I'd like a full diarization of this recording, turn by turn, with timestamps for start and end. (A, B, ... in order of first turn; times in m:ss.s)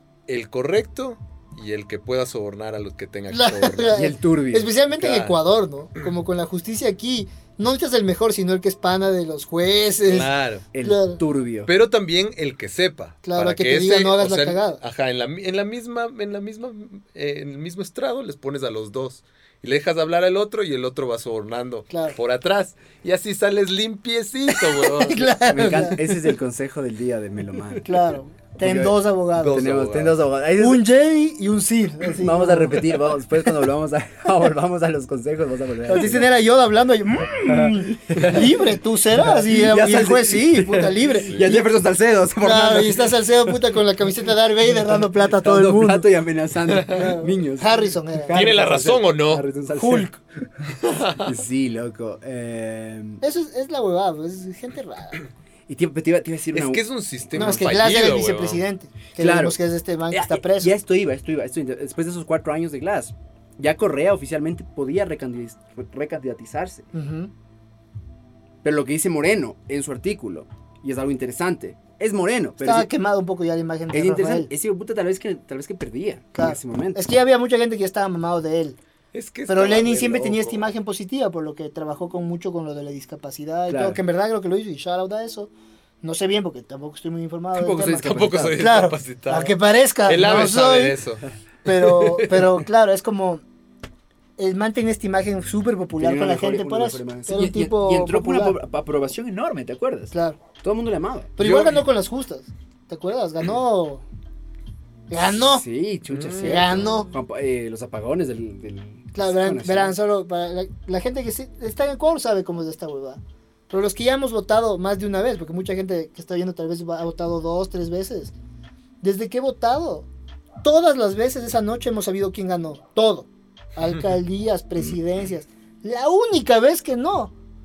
0:00.3-0:04.0 A
0:03.3-0:10.3 B
0:03.9-0:04.7 C
0:05.0-0:05.4 A
0:10.1-0:10.6 A
0:10.7-0:11.7 C
0:10.8-0:11.2 B
0:11.6-0:25.4 A
0:13.2-0:14.8 B
0:21.9-0:22.2 B
0:24.5-0:26.3 B
0:25.5-0:28.0 C
0:27.8-0:29.6 B
0:28.6-0:30.8 C
0:29.4-0:30.2 A
0:30.6-0:33.2 B
0:32.0-0:36.3 C
0:35.9-0:41.6 B
0:37.4-0:43.5 C
0:42.4-0:46.1 B
0:44.7-0:50.1 C
0:46.9-0:48.4 B
0:48.3-0:49.4 A
0:49.7-0:50.2 B
0:50.8-0:51.3 A
0:51.2-0:53.2 C
0:53.2-0:55.2 B
0:55.7-0:56.8 C
0:56.5-0:58.6 A
0:57.3-0:57.6 C
0:57.4-1:00.7 B
0:59.2-1:06.8 C
1:06.9-1:07.3 B
1:08.6-1:12.9 C
1:12.6-1:14.5 B
1:13.9-1:17.0 C
1:16.3-1:18.8 B
1:19.1-1:20.6 A
1:19.5-1:25.5 B
1:23.7-1:24.0 C
1:26.0-1:31.0 B
1:27.5-1:28.6 C
1:28.0-1:32.6 A
1:31.6-1:33.4 B
1:34.4-1:38.6 B
1:36.0-1:41.3 C
1:40.1-1:40.4 B
1:41.4-1:44.0 B
1:41.4-1:41.8 A
1:45.1-1:45.6 B
1:45.4-1:50.0 C
1:46.1-1:46.6 A
1:46.4-1:47.1 B
1:49.1-1:58.3 B
1:59.0-2:00.1 B
2:00.6-2:07.3 B